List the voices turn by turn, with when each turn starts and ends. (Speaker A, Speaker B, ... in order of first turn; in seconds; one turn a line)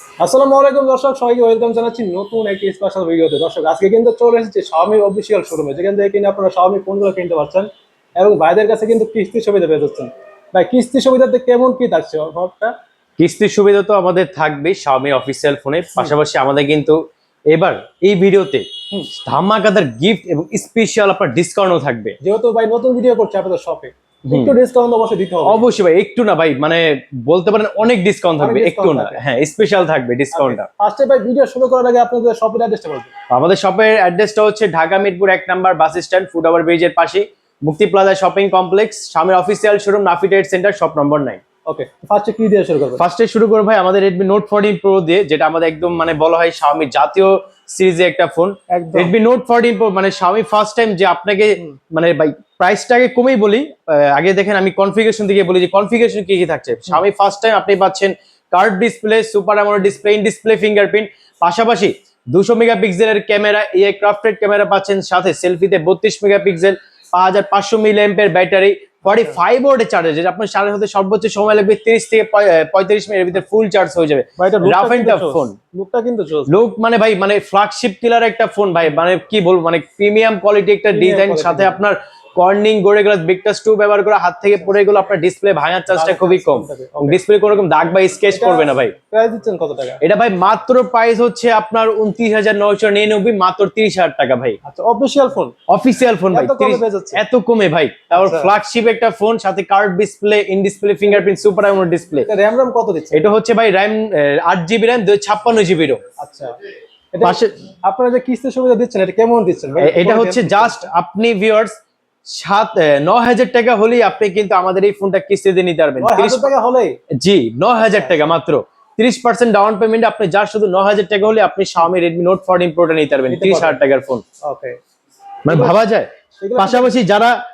Speaker A: 0.2-12.7
Speaker B: 13.2-17.0
Speaker B: 17.5-22.1
Speaker A: 22.2-25.6
Speaker B: 24.3-24.5
Speaker B: 25.4-30.6
Speaker A: 28.4-29.2
Speaker A: 30.3-33.1
Speaker B: 33.3-41.4
Speaker A: 41.7-43.0
Speaker B: 43.0-75.5
Speaker A: 48.7-49.1
Speaker A: 74.4-76.5
Speaker B: 76.5-88.9
Speaker A: 80.9-81.7
Speaker A: 85.9-87.2
Speaker A: 88.3-90.0
Speaker B: 90.0-94.6
Speaker A: 94.6-95.5
Speaker B: 95.7-102.3
Speaker A: 96.3-97.2
Speaker A: 98.1-98.5
Speaker A: 102.1-103.2
Speaker B: 103.1-106.0
Speaker A: 106.2-106.5
Speaker A: 107.1-110.8
Speaker B: 107.2-107.6
Speaker B: 109.8-111.7
Speaker B: 112.3-116.5
Speaker A: 116.0-117.0
Speaker B: 117.2-124.2
Speaker A: 123.3-123.8
Speaker A: 124.4-124.8
Speaker B: 125.4-127.3
Speaker A: 125.5-125.8
Speaker A: 126.4-127.0